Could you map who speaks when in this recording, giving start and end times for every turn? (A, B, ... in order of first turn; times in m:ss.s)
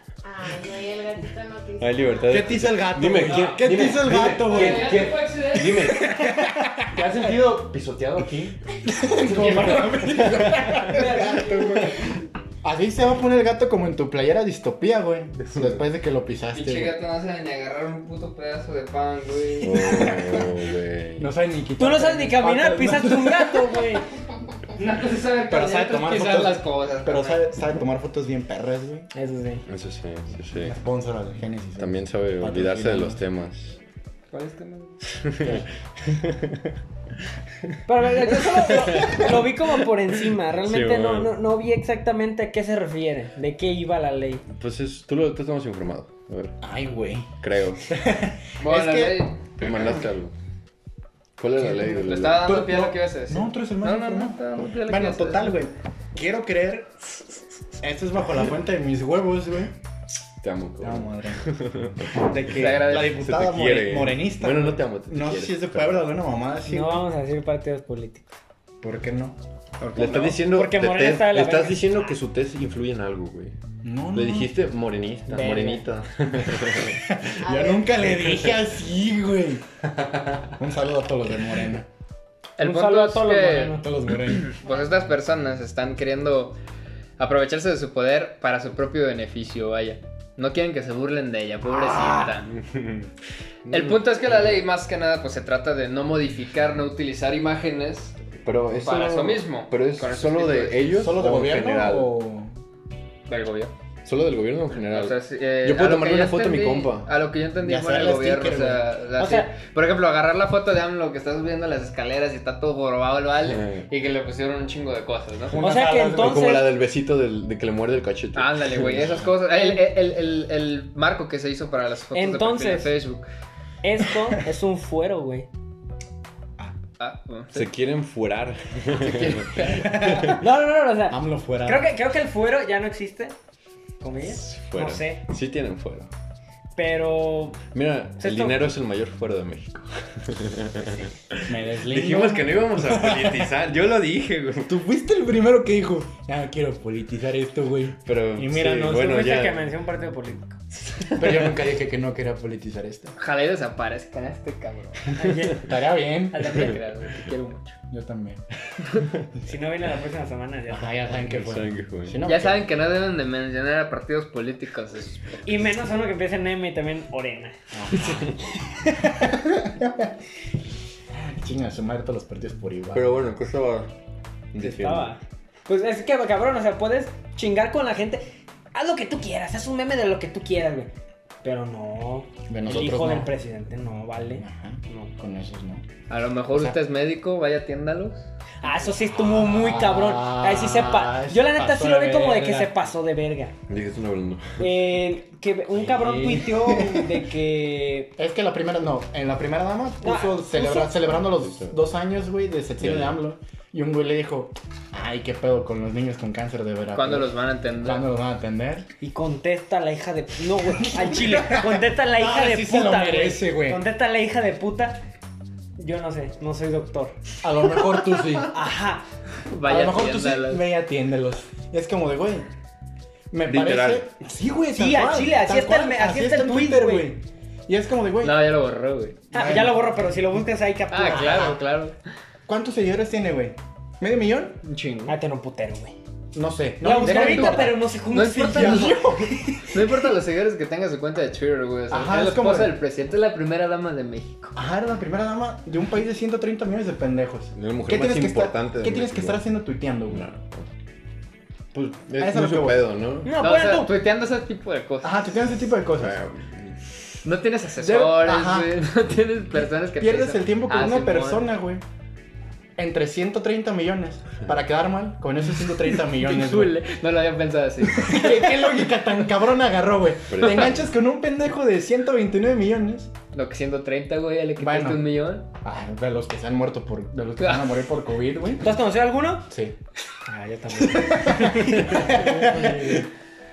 0:00.2-0:02.4 A
0:01.8-0:08.6 B
0:02.3-0:07.0 C
0:03.3-0:03.6 D
0:04.4-0:05.8 D
0:08.8-0:17.0 C
0:09.2-0:11.9 B
0:10.9-0:11.5 D
0:15.4-0:15.8 B
0:16.5-0:20.0 D
0:19.6-0:21.3 B
0:19.7-0:20.6 C
0:21.2-0:23.9 C
0:21.8-0:24.1 E
0:24.7-0:27.4 D
0:25.5-0:29.1 C
0:29.1-0:29.6 E
0:29.7-0:30.7 B
0:30.5-0:33.2 C
0:31.8-0:33.8 B
0:34.3-0:35.0 D
0:35.1-0:36.7 B
0:37.9-0:44.4 E
0:38.2-0:39.8 B
0:40.6-0:41.4 B
0:44.5-0:46.6 B
0:46.6-0:47.3 C
0:47.4-0:47.9 B
0:47.9-0:49.7 C
0:48.6-0:49.6 D
0:49.6-0:50.3 B
0:51.4-0:52.5 B
0:51.6-0:56.9 C
0:51.9-0:55.6 D
0:57.8-0:59.7 C
1:00.4-1:06.1 B
1:00.8-1:01.4 C
1:02.1-1:07.0 C
1:02.5-1:03.2 D
1:06.7-1:08.3 E
1:08.8-1:09.4 C
1:09.8-1:10.4 D
1:09.9-1:13.5 B
1:10.4-1:12.1 E
1:13.8-1:14.5 C
1:14.1-1:17.1 B
1:15.3-1:15.8 E
1:16.9-1:19.6 C
1:17.4-1:18.0 A
1:20.0-1:20.5 B
1:20.6-1:21.9 C
1:22.6-1:23.8 D
1:22.6-1:23.9 E
1:23.8-1:24.5 C
1:24.4-1:26.6 D
1:24.6-1:24.9 A
1:27.2-1:32.5 D
1:31.7-1:32.3 C
1:32.5-1:33.1 B
1:33.6-1:34.6 B
1:33.7-1:38.2 D
1:38.4-1:42.1 B
1:38.8-1:40.8 D
1:40.9-1:42.5 C
1:43.3-1:43.7 D
1:44.0-1:47.1 B
1:44.8-1:55.6 D
1:47.6-1:48.9 C
1:49.2-1:49.5 E
1:53.4-1:53.9 B
1:55.5-1:56.5 C
1:55.6-1:56.7 E
1:56.1-1:59.1 B
1:58.3-2:03.3 D
1:59.0-1:59.3 C
1:59.5-1:59.8 E
2:02.1-2:02.9 E
2:03.8-2:05.5 E
2:07.0-2:07.7 D
2:07.5-2:10.4 B
2:09.0-2:10.1 D
2:09.7-2:10.4 C
2:10.3-2:13.3 E
2:11.1-2:11.9 C
2:14.0-2:15.2 E
2:14.2-2:16.1 B
2:16.8-2:17.6 E
2:17.7-2:24.7 B
2:18.2-2:18.6 E
2:21.4-2:23.5 C
2:24.6-2:29.0 C
2:28.0-2:29.7 B
2:28.6-2:30.6 E
2:31.1-2:33.1 C
2:33.2-2:35.1 D
2:35.2-2:35.8 E
2:35.5-2:36.7 C
2:36.3-2:36.8 E
2:36.4-2:37.8 D
2:37.9-2:38.4 C
2:39.4-2:41.2 E
2:40.7-2:42.7 C
2:41.2-2:42.2 B
2:42.2-2:45.4 D
2:45.4-2:47.6 E
2:47.7-2:50.1 C
2:51.1-2:53.1 C
2:52.9-2:53.9 B
2:54.5-2:55.2 B
2:54.6-3:00.9 E
3:01.4-3:05.1 E
3:02.5-3:03.3 C
3:04.4-3:05.8 C
3:06.1-3:08.2 D
3:08.6-3:13.5 E
3:09.1-3:12.7 C
3:13.7-3:14.7 B
3:14.6-3:18.1 E
3:15.8-3:17.2 C
3:18.2-3:28.9 C
3:20.0-3:21.0 E
3:21.4-3:21.7 B
3:22.8-3:23.2 B
3:26.9-3:28.0 D
3:29.0-3:35.0 E
3:30.9-3:33.8 C
3:35.8-3:37.2 E
3:37.4-3:38.5 C
3:38.5-3:39.0 E
3:39.5-3:40.6 D
3:39.6-3:42.5 C
3:43.3-3:48.6 C
3:43.5-3:44.0 B
3:44.7-3:47.1 E
3:48.2-3:49.2 D
3:49.3-3:50.2 C
3:49.3-3:51.6 E
3:50.9-3:52.0 D
3:51.0-3:51.6 C
3:52.5-3:54.6 C
3:54.6-3:55.1 D
3:55.1-3:56.0 E
3:56.3-3:57.8 C
3:56.8-3:59.2 E
3:57.0-4:04.5 D
3:58.5-3:59.9 C
4:01.9-4:02.8 C
4:04.6-4:10.2 C
4:07.5-4:09.4 B
4:10.1-4:10.7 B
4:11.7-4:13.3 B
4:12.2-4:12.9 C
4:13.2-4:13.9 E
4:13.4-4:15.2 D
4:15.0-4:16.2 C
4:16.0-4:16.8 B
4:17.2-4:21.5 D
4:17.8-4:18.7 C
4:19.9-4:21.8 C
4:22.8-4:26.8 C
4:26.0-4:28.3 D
4:27.9-4:33.1 C
4:30.3-4:30.8 B
4:33.3-4:35.5 D
4:34.6-4:35.0 C
4:35.6-4:38.7 C
4:37.4-4:37.8 D
4:38.6-4:39.5 E
4:39.5-4:39.7 C
4:40.2-4:43.0 E
4:40.7-4:43.1 C